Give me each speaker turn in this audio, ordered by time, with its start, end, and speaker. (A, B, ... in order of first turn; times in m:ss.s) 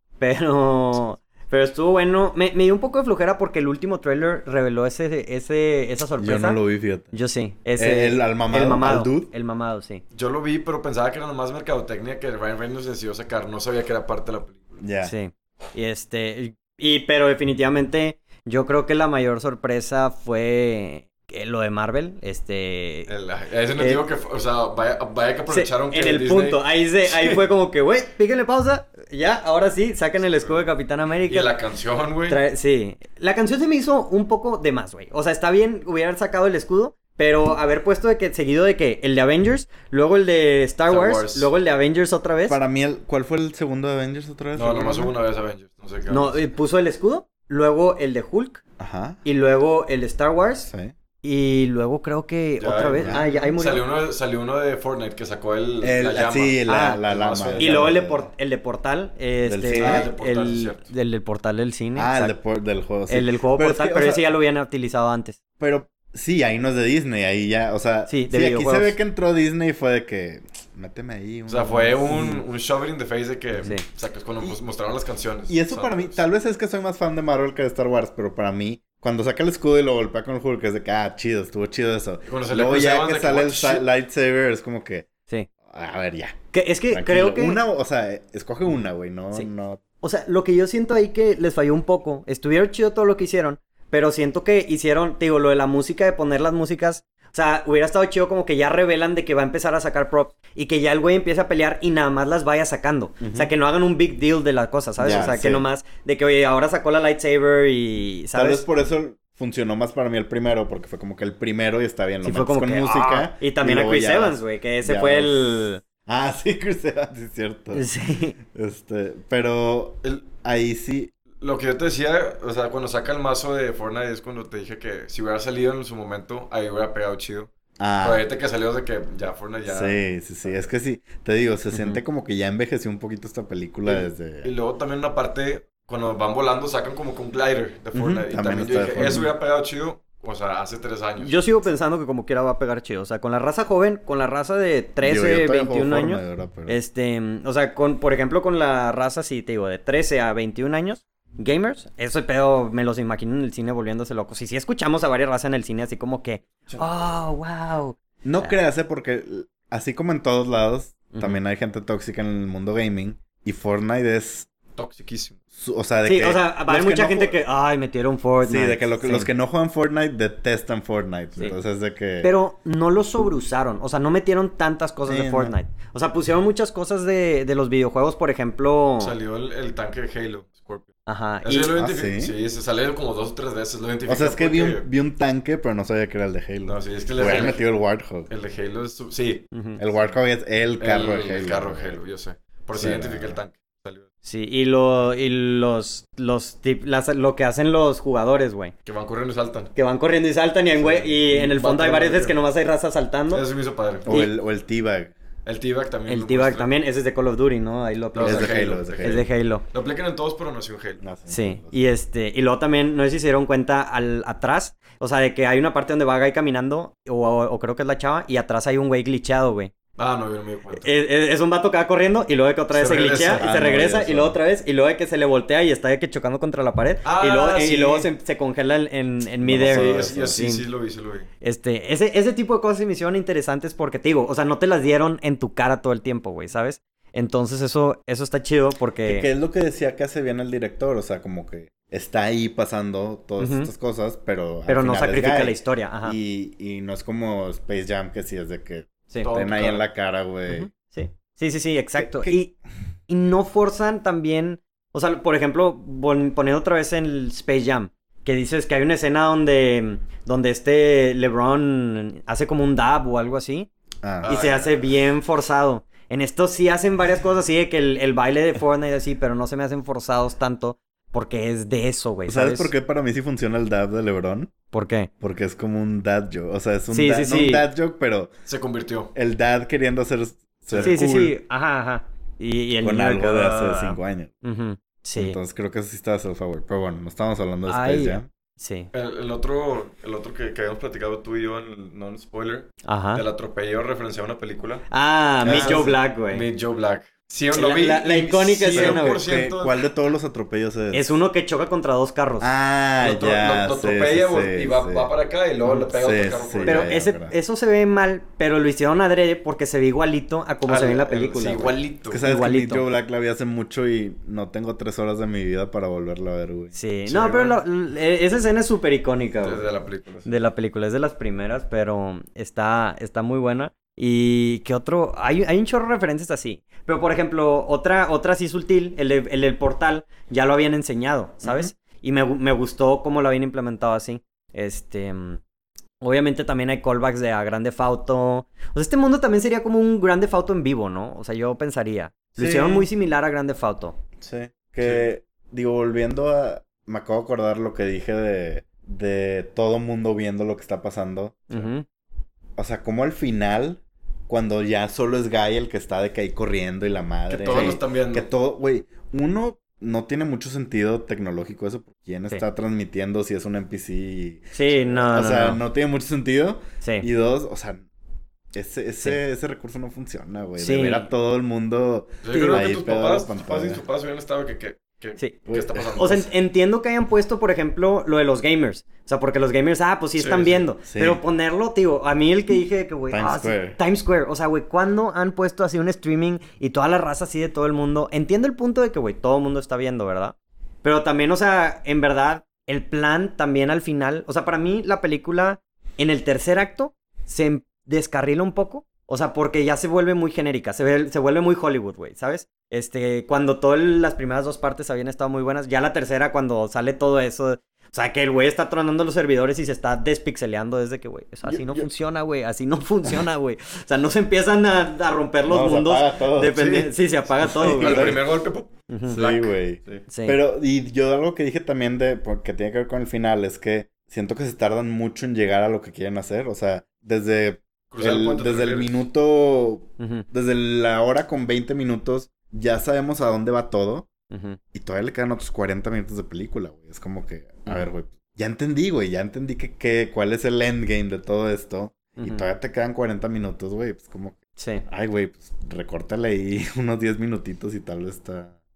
0:00.2-0:06.6 A
0:06.2-0:07.1 B
0:07.1-0:10.0 A
0:07.8-0:09.3 B
0:10.1-0:14.6 C
0:14.8-0:15.1 B
0:15.0-0:23.1 A
0:23.1-0:27.4 C
0:23.8-0:24.0 A
0:25.5-0:31.5 A
0:30.1-0:30.6 C
0:31.3-0:32.4 C
0:32.3-0:42.6 A
0:40.8-0:41.5 C
0:42.5-0:45.1 B
0:44.5-0:46.4 C
0:46.1-0:48.6 A
0:48.8-0:49.2 B
0:49.2-0:50.7 A
0:50.6-0:50.9 B
0:51.2-0:53.8 A
0:52.6-0:57.9 C
0:53.0-0:53.5 B
0:55.8-0:58.3 B
0:56.7-0:57.0 A
0:57.6-1:02.3 A
0:59.4-1:00.1 B
0:59.7-1:00.9 C
1:02.0-1:04.3 B
1:03.1-1:05.4 A
1:05.6-1:12.4 B
1:08.1-1:09.0 A
1:11.5-1:16.2 C
1:15.5-1:25.1 B
1:22.2-1:23.8 C
1:25.7-1:26.4 B
1:26.5-1:27.6 A
1:26.9-1:29.8 B
1:30.0-1:48.6 A
1:43.2-1:43.5 B
1:45.0-1:45.7 B
1:48.3-1:57.9 B
1:52.2-1:55.8 A
1:57.7-1:58.4 A
1:58.5-2:01.1 B
2:01.4-2:10.7 C
2:07.8-2:08.2 B
2:09.6-2:14.5 B
2:11.7-2:12.0 A
2:13.8-2:21.5 C
2:17.9-2:19.3 B
2:19.0-2:19.2 A
2:21.2-2:38.6 A
2:25.0-2:26.8 B
2:36.6-2:37.1 C
2:38.2-2:44.5 B
2:41.1-2:41.4 A
2:44.8-2:45.4 C
2:45.5-2:47.4 B
2:46.0-2:49.3 A
2:48.4-2:52.3 B
2:52.2-2:59.2 A
2:55.0-2:55.5 B
2:59.0-3:00.9 C
3:01.0-3:01.8 A
3:01.4-3:04.9 C
3:01.7-3:02.3 B
3:04.1-3:08.3 B
3:06.6-3:07.6 C
3:08.3-3:10.2 C
3:09.5-3:09.8 A
3:09.8-3:12.0 B
3:10.8-3:14.1 C
3:12.8-3:13.4 B
3:14.2-3:18.7 A
3:18.8-3:19.7 C
3:19.7-3:23.4 A
3:20.7-3:22.4 C
3:23.3-3:24.2 C
3:24.0-3:25.1 B
3:24.1-3:24.3 A
3:25.4-3:26.8 C
3:26.1-3:29.6 A
3:28.1-3:31.0 C
3:28.2-3:29.2 B
3:31.0-3:31.8 B
3:31.3-3:39.7 A
3:40.0-3:41.0 C
3:40.8-3:50.6 A
3:42.7-3:43.5 C
3:43.1-3:44.4 B
3:47.0-3:48.1 C
3:49.4-3:50.4 B
3:49.6-3:51.3 C
3:51.4-3:59.3 A
3:59.0-4:10.7 B
4:03.4-4:03.7 A
4:04.7-4:06.2 A
4:09.2-4:09.8 C
4:10.5-4:12.5 A
4:12.0-4:12.4 B
4:13.1-4:23.7 A
4:24.0-4:24.5 B
4:24.2-4:32.7 A
4:24.2-4:24.8 C
4:32.3-4:34.5 B
4:34.7-4:35.1 A
4:35.2-4:38.3 B
4:36.9-4:37.7 A
4:38.5-4:39.1 C
4:39.1-4:41.4 B
4:40.7-4:41.0 C
4:40.8-4:45.4 A
4:42.8-4:44.3 B
4:45.2-4:48.3 B
4:47.6-4:48.9 A
4:48.9-4:54.8 C
4:52.8-4:53.2 A
4:54.9-4:56.5 A
4:55.4-4:56.0 B
4:55.4-4:59.8 C
4:57.5-4:59.2 A
4:58.7-5:01.2 B
5:00.9-5:02.5 A
5:02.4-5:05.1 B
5:03.0-5:06.9 C
5:05.7-5:07.4 B
5:06.7-5:12.9 A
5:10.6-5:12.3 C
5:11.4-5:16.7 B
5:16.7-5:19.6 A
5:17.0-5:17.6 C
5:19.4-5:20.3 C
5:20.2-5:35.4 A
5:36.0-5:44.0 A
5:42.4-5:42.9 B
5:44.2-5:51.7 B
5:44.8-5:45.1 C
5:51.5-5:51.8 A
5:52.6-6:07.8 B
5:57.3-5:58.3 C
6:04.5-6:05.6 A
6:06.8-6:07.1 A
6:08.5-6:13.8 B
6:10.6-6:11.1 A
6:12.2-6:16.2 C
6:12.3-6:12.7 A
6:15.5-6:16.3 B
6:16.0-6:58.2 A
6:20.1-6:20.7 C
6:20.8-6:21.2 B
6:23.1-6:23.8 B
6:51.4-6:51.9 B
6:55.5-6:56.6 B
6:56.5-7:00.0 C
6:57.4-6:58.2 B
6:58.9-6:59.2 A
6:59.1-7:14.1 B
7:00.1-7:00.4 A
7:07.9-7:09.0 C
7:10.0-7:10.2 A
7:14.3-7:14.6 A
7:14.7-7:28.6 B
7:22.2-7:22.5 A
7:24.6-7:24.8 A